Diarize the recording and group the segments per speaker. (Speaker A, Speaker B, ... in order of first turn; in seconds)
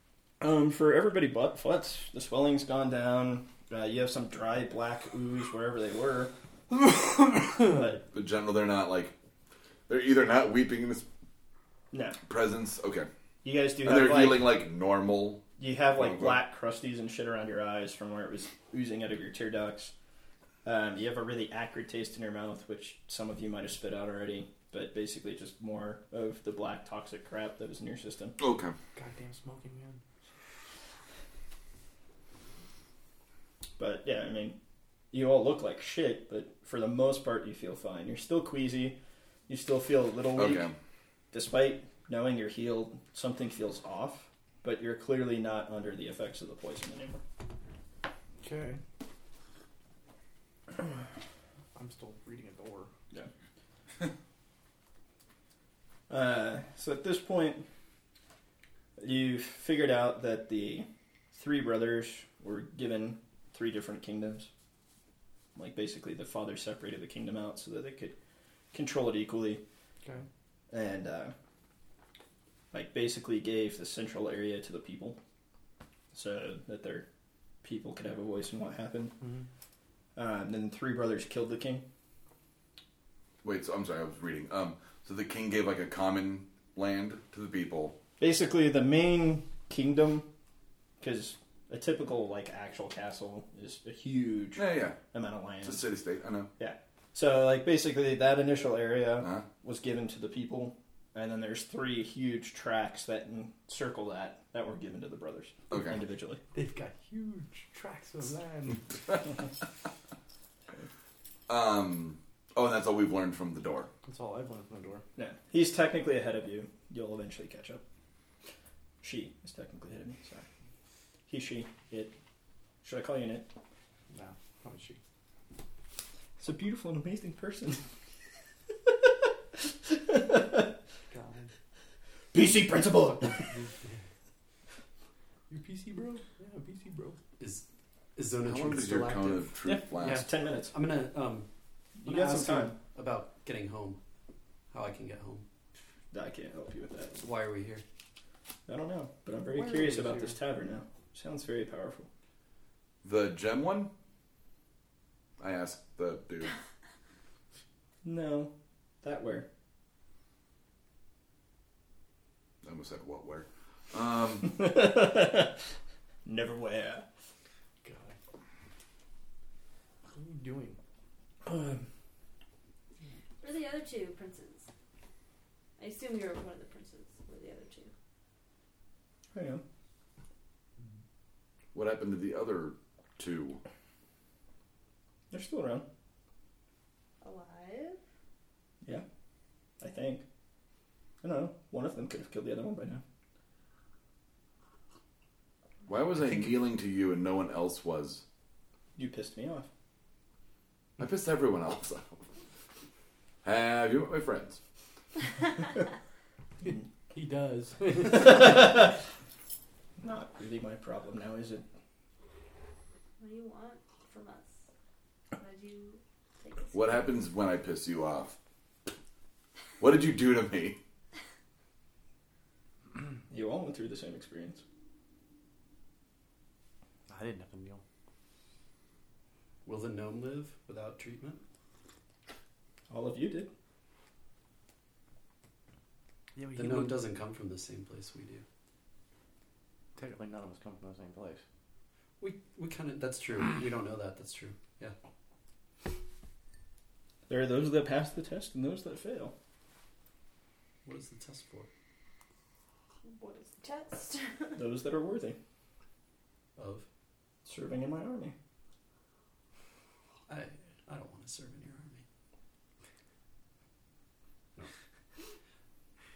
Speaker A: 0.4-6.3, 7.6-8.0, 11.9-12.2, 13.4-14.5, 15.6-19.9, 20.6-28.4, 33.8-34.6, 35.1-40.7, 41.3-47.2, 56.1-57.6, 59.0-64.5, 65.5-68.1, 68.7-69.6, 70.7-71.3, 72.7-75.2, 76.1-77.0, 77.6-79.2, 80.2-81.8, 88.2-90.3, 91.0-95.9, 96.6-106.4, 115.2-117.8, 119.0-120.5, 121.3-122.2, 122.8-123.5, 126.4-127.8, 129.9-130.7, 132.3-133.5, 139.6-140.7, 142.0-142.8, 146.1-147.2, 148.7-152.1, 158.0-159.5, 164.4-165.6, 166.2-167.0, 171.5-171.7, 179.3-179.6, 185.3-185.8, 189.8-190.2, 191.2-193.0, 199.0-199.7, 208.1-208.9, 210.0-211.6, 223.3-224.6, 232.9-233.5, 247.3-249.3, 254.6-255.4, 257.4-258.3
Speaker B: 8.1-9.1, 9.9-11.1, 12.2-13.1, 13.8-16.4, 28.4-28.7, 40.3-40.7, 83.4-88.0, 94.5-95.0, 95.6-96.5, 105.7-106.0, 111.5-113.9, 138.4-140.2, 153.0-153.9, 155.4-156.5, 162.6-164.6, 181.7-183.6, 195.9-198.2, 201.0-202.2, 203.4-204.6, 216.7-218.3, 219.8-220.8
Speaker C: 28.9-30.0, 48.4-48.8, 51.7-52.9, 79.2-79.5, 106.5-108.8, 114.0-115.0, 124.1-125.0, 131.1-131.5, 133.5-134.0, 135.5-137.2, 149.5-150.4, 167.8-168.2, 170.1-170.8, 206.7-208.8, 227.1-227.8, 236.3-237.0, 239.9-241.4
Speaker D: 137.4-141.5, 142.0-144.0, 144.7-145.4, 147.2-147.8, 229.6-231.4, 236.6-238.4, 242.2-244.9, 250.8-251.7, 256.6-256.9, 260.3-262.0
Speaker E: 173.4-174.7, 175.8-177.9, 187.2-188.0, 213.2-214.6, 215.3-216.9, 253.0-254.6